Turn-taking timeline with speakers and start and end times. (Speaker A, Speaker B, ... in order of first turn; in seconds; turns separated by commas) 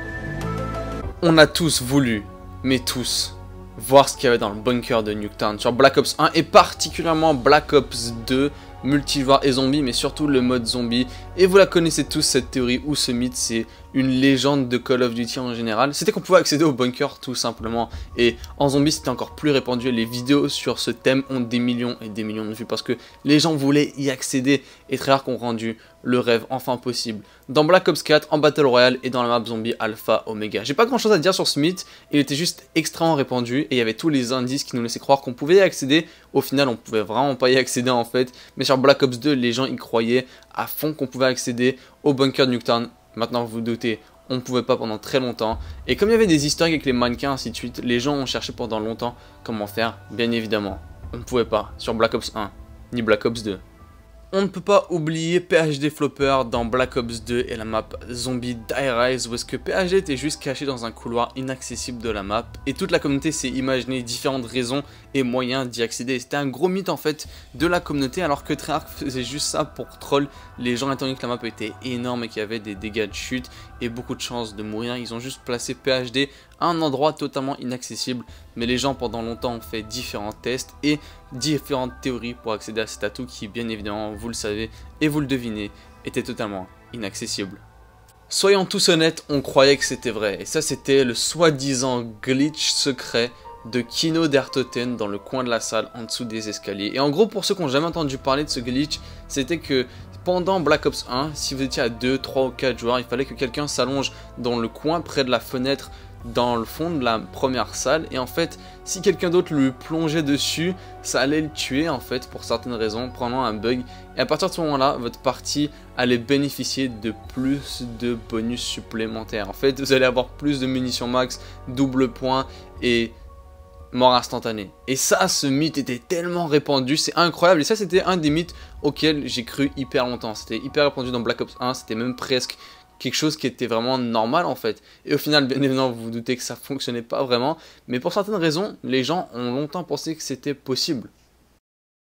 Speaker A: 1.2-53.6, Speaker A: 54.3-87.6, Speaker A: 88.3-123.1, Speaker A: 123.9-141.1